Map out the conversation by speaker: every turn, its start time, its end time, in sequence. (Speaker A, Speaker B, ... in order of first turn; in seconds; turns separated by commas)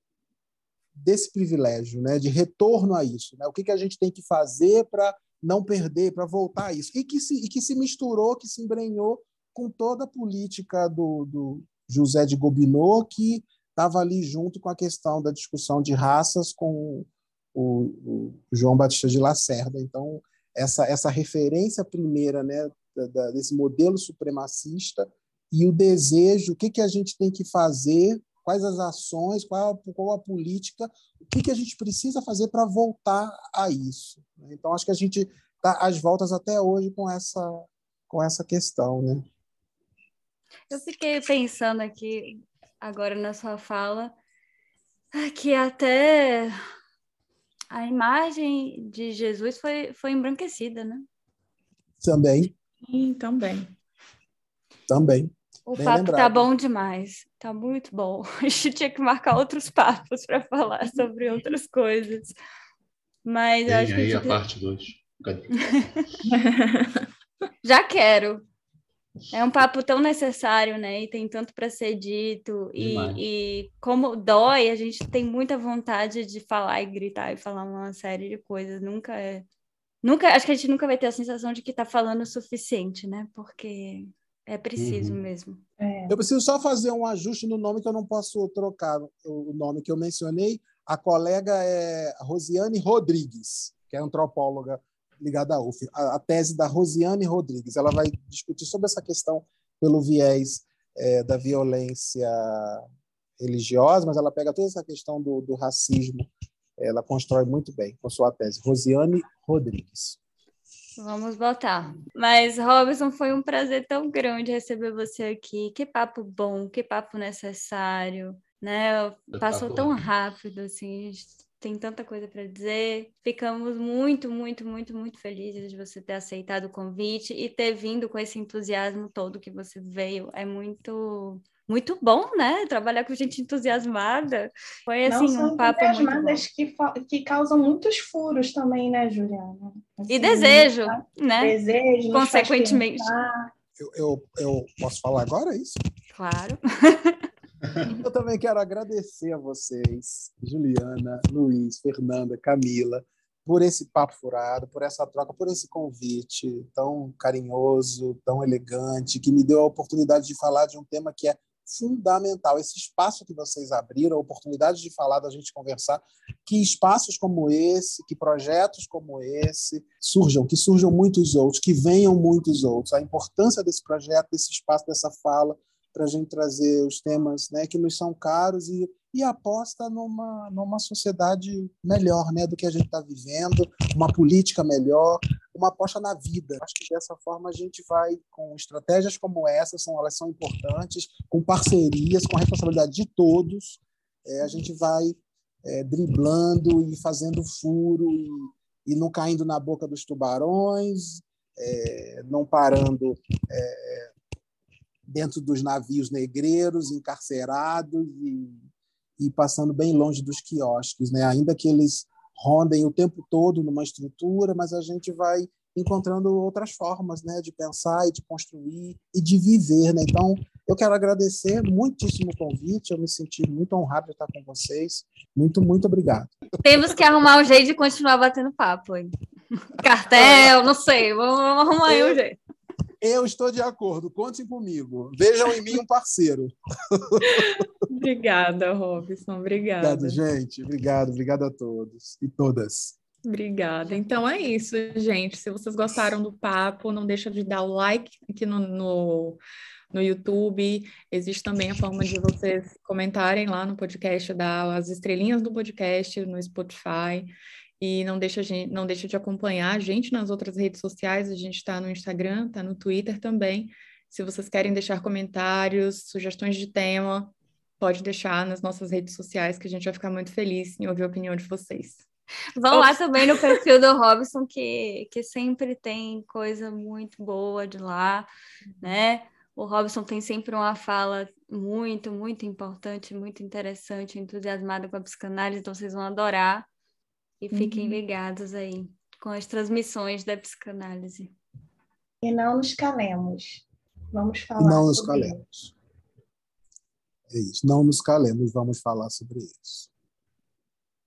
Speaker A: 0.9-39.2, Speaker B: 40.7-44.2, Speaker B: 45.1-46.6, Speaker B: 47.7-51.1, Speaker A: 52.0-52.5, Speaker C: 52.8-53.7, Speaker A: 54.9-56.5, Speaker B: 55.7-62.4, Speaker B: 63.2-64.4, Speaker D: 63.7-66.1, Speaker B: 65.6-66.1, Speaker C: 66.3-67.1, Speaker B: 67.6-68.5, Speaker B: 69.3-79.5, Speaker D: 72.8-73.2, Speaker B: 80.0-85.6, Speaker D: 84.8-85.2, Speaker E: 85.8-86.2, Speaker A: 86.1-102.8, Speaker A: 103.4-110.2, Speaker B: 111.0-136.4, Speaker D: 119.3-120.0, Speaker E: 135.1-143.5, Speaker B: 140.1-141.6, Speaker B: 142.1-143.1, Speaker A: 143.8-145.8, Speaker B: 146.1-147.2, Speaker A: 148.0-204.1, Speaker A: 205.1-208.6, Speaker A: 209.2-226.3, Speaker B: 226.6-232.4, Speaker A: 230.1-230.6, Speaker A: 231.9-232.2, Speaker A: 233.0-237.7, Speaker C: 237.2-240.2, Speaker A: 239.8-243.0, Speaker C: 243.2-249.4, Speaker C: 249.9-272.0, Speaker B: 272.6-278.3, Speaker C: 272.7-273.6, Speaker B: 278.8-286.7, Speaker B: 287.4-291.4, Speaker C: 287.5-288.0, Speaker E: 292.2-295.4, Speaker A: 294.6-295.7, Speaker A: 297.3-299.9